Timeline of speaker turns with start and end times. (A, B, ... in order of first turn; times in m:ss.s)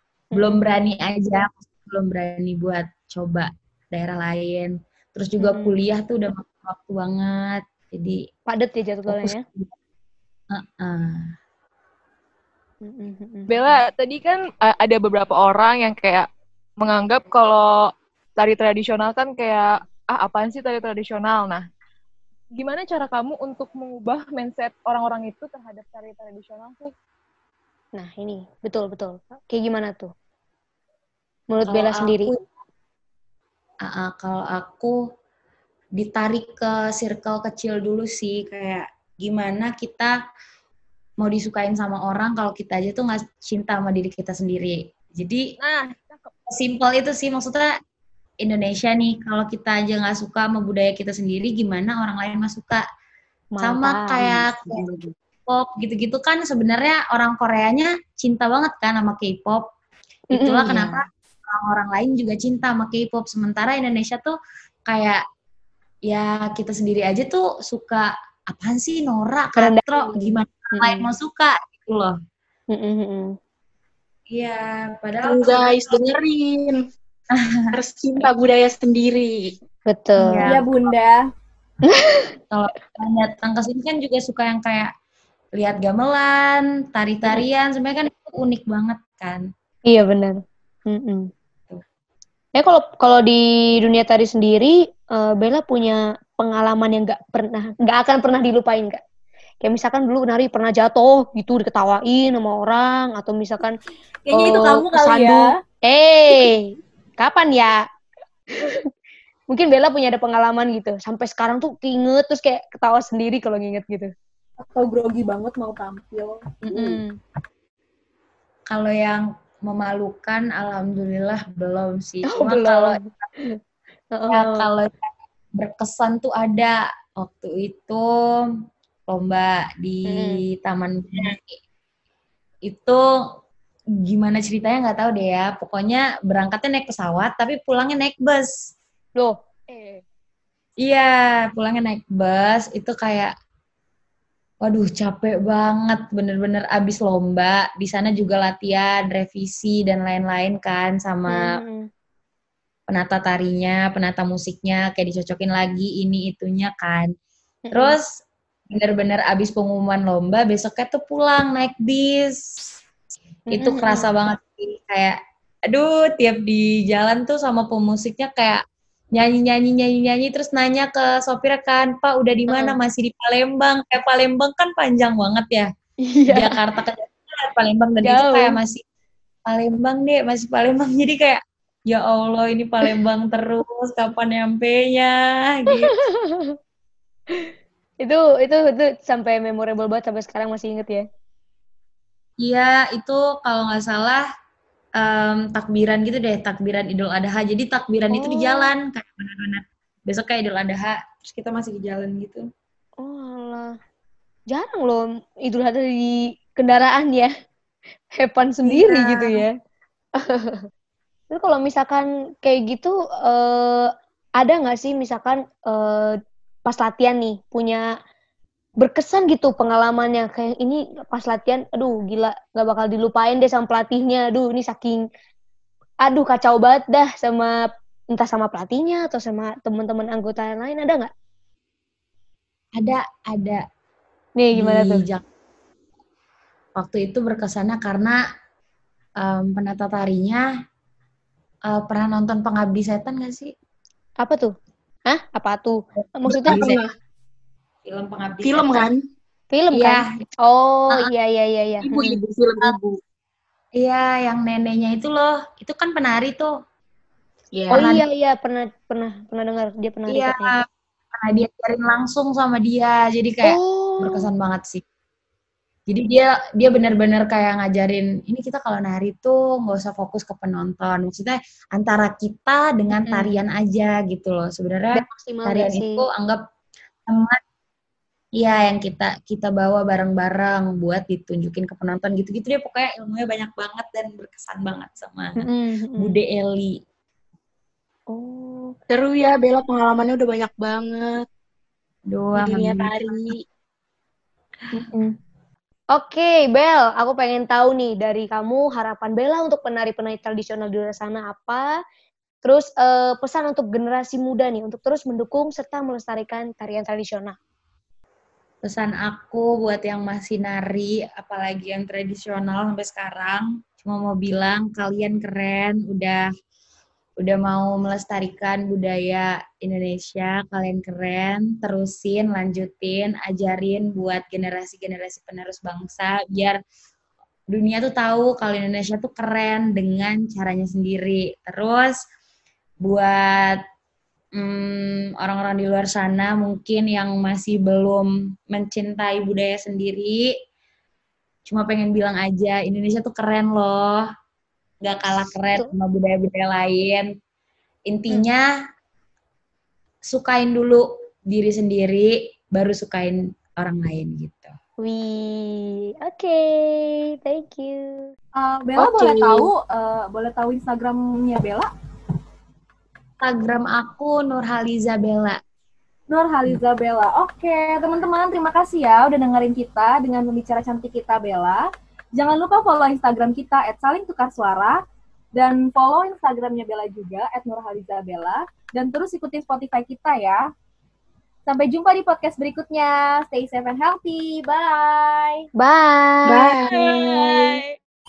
0:00.3-0:08.2 A
0:00.4-0:00.6 B
0:05.4-0:05.8 B
0:08.5-0:09.4 B
0:09.1-0:09.7 A
0:10.5-0:11.3 A
0:12.8-0:13.7 B
0:13.5-0:16.3 C
0:16.8-0:21.6 C
0:22.6-0:26.9 C
0:28.0-0:30.1 B
0:31.5-0:32.3 B
0:31.7-0:32.4 A
0:33.8-0:35.0 A
0:36.0-0:40.2 A
0:41.2-0:45.5 A
0:45.6-0:46.3 C
0:46.5-0:47.7 A
0:48.4-0:52.8 A
0:53.6-0:55.1 B
0:53.6-0:54.8 A
0:55.5-0:59.6 A
1:00.3-1:01.0 B
1:00.3-1:04.4 A
1:04.9-1:05.2 A
1:06.1-1:12.2 A
1:09.6-1:11.1 B
1:12.7-1:13.4 B
1:14.3-1:16.2 A
1:15.2-1:16.8 D
1:17.3-1:17.7 A
1:17.7-1:19.5 D
1:19.9-1:20.4 B
1:20.2-1:20.7 A
1:20.4-1:21.2 E
1:21.9-1:22.3 B
1:22.5-1:24.9 A
1:25.6-1:29.5 A
1:29.9-1:31.3 B
1:32.6-1:39.0 B
1:39.6-1:43.8 B
1:44.3-1:45.6 E
1:44.3-1:47.8 B
1:48.5-1:48.9 B
1:49.5-1:54.1 B
1:54.6-1:57.0 E
1:56.6-1:57.2 B
1:58.7-2:03.0 A
2:02.3-2:03.6 B
2:04.2-2:04.7 B
2:04.3-2:05.0 A
2:05.6-2:08.1 A
2:09.1-2:11.6 A
2:10.1-2:10.4 B
2:12.7-2:13.2 A
2:14.0-2:18.5 A
2:19.2-2:20.0 B
2:20.8-2:23.3 A
2:24.6-2:31.5 A
2:31.3-2:31.9 B
2:32.9-2:37.1 A
2:37.7-2:38.0 B
2:37.7-2:38.1 A
2:38.7-2:42.7 A
2:43.5-2:44.1 B
2:43.5-2:45.2 A
2:45.7-2:48.6 A
2:49.1-2:55.7 A
2:52.5-2:52.8 B
2:56.1-2:56.6 B
2:56.3-2:58.8 A
2:58.0-2:58.6 B
2:59.5-3:06.0 A
3:05.8-3:06.6 B
3:08.0-3:11.1 B
3:12.4-3:14.3 A
3:15.0-3:22.5 A
3:18.1-3:18.7 B
3:23.0-3:23.8 B
3:24.5-3:27.3 B
3:28.2-3:29.5 B
3:28.6-3:29.5 A
3:30.2-3:30.6 B
3:31.3-3:37.8 B
3:38.8-3:45.0 B
3:46.0-3:47.5 B
3:48.1-3:51.1 B
3:52.8-3:53.6 A
3:54.4-3:55.0 B
3:54.5-3:55.2 A
3:56.8-3:58.2 A
3:59.2-4:00.4 A
4:01.7-4:03.5 A
4:04.2-4:04.5 B
4:05.1-4:06.7 B
4:06.3-4:06.9 D
4:06.5-4:06.8 A
4:07.8-4:08.9 A
4:08.4-4:09.0 D
4:09.5-4:12.2 B
4:09.7-4:10.2 A
4:11.8-4:13.0 D
4:13.8-4:16.5 A
4:17.6-4:18.0 D
4:17.7-4:18.0 A
4:17.7-4:20.6 B
4:20.1-4:24.8 A
4:23.4-4:24.3 B
4:25.9-4:36.4 A
4:32.9-4:33.4 B
4:34.9-4:36.0 B
4:37.1-4:37.4 A
4:38.4-4:46.8 A
4:45.4-4:46.2 B
4:48.1-4:48.8 B
4:48.9-4:51.3 D
4:52.1-4:53.3 A
4:52.4-4:53.4 D
4:54.7-4:55.2 B
4:55.9-5:01.7 B
5:02.4-5:07.4 B
5:08.6-5:16.2 A
5:17.2-5:26.6 A
5:27.5-5:32.0 A
5:32.8-5:33.6 A
5:34.4-5:40.3 A
5:41.5-5:44.1 A
5:44.8-5:47.1 A
5:47.9-5:48.5 A
5:50.1-5:54.6 A
5:54.8-5:58.1 B
5:58.4-6:01.7 E
5:58.8-5:59.5 D
6:03.2-6:05.4 A
6:06.1-6:11.6 E
6:12.2-6:14.8 E
6:15.4-6:20.4 E
6:21.5-6:25.4 E
6:25.6-6:26.6 B
6:26.3-6:27.6 D